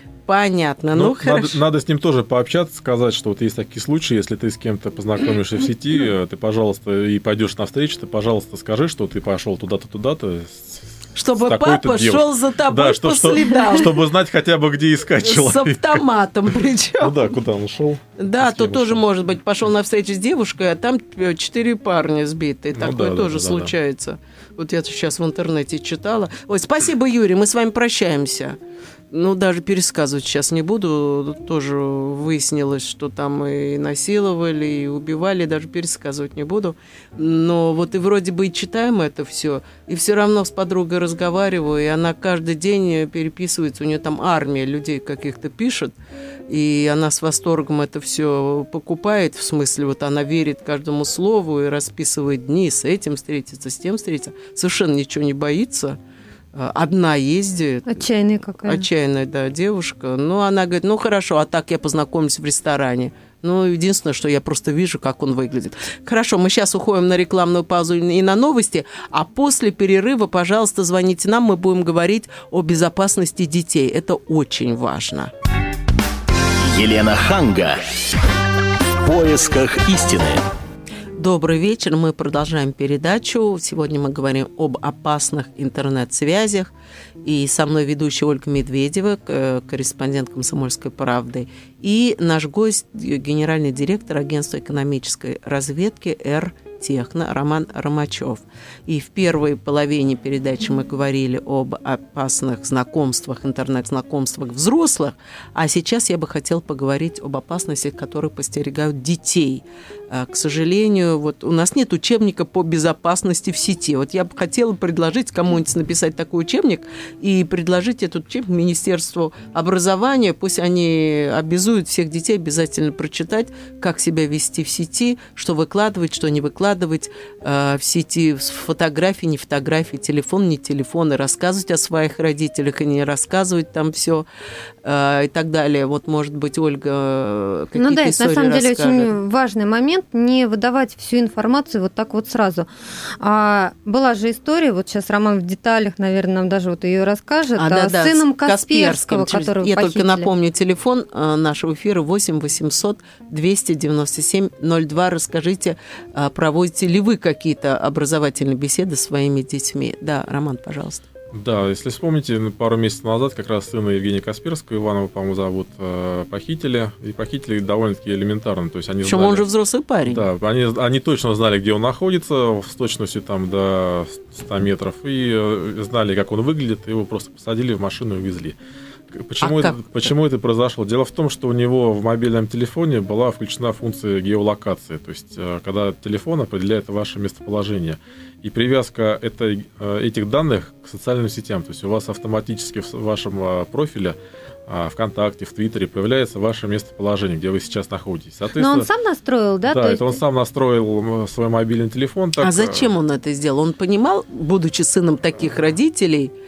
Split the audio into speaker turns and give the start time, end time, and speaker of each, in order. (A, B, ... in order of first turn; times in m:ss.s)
0:00.3-0:01.6 A
0:00.9-0:16.1 B
0:11.2-0:14.0 A
0:15.2-0:17.3 A
0:17.0-0:19.0 B
0:18.2-0:28.6 A
0:22.8-0:23.7 B
0:29.1-0:46.0 A
0:46.5-0:56.0 A
0:56.5-0:58.1 A
0:57.9-0:58.9 C
0:58.6-1:15.3 A
1:16.6-1:18.2 D
1:19.0-1:20.5 D
1:21.2-1:26.7 A
1:27.2-2:14.3 A
2:14.8-2:19.2 A
2:17.8-2:22.7 C
2:23.2-2:30.3 C
2:27.6-2:41.0 A
2:41.3-2:49.5 B
2:49.0-2:50.3 A
2:50.1-2:58.6 B
2:59.1-3:14.2 B
2:59.4-2:59.9 A
3:14.7-3:18.9 B
3:18.6-3:20.2 C
3:19.7-3:22.9 B
3:22.4-3:26.3 A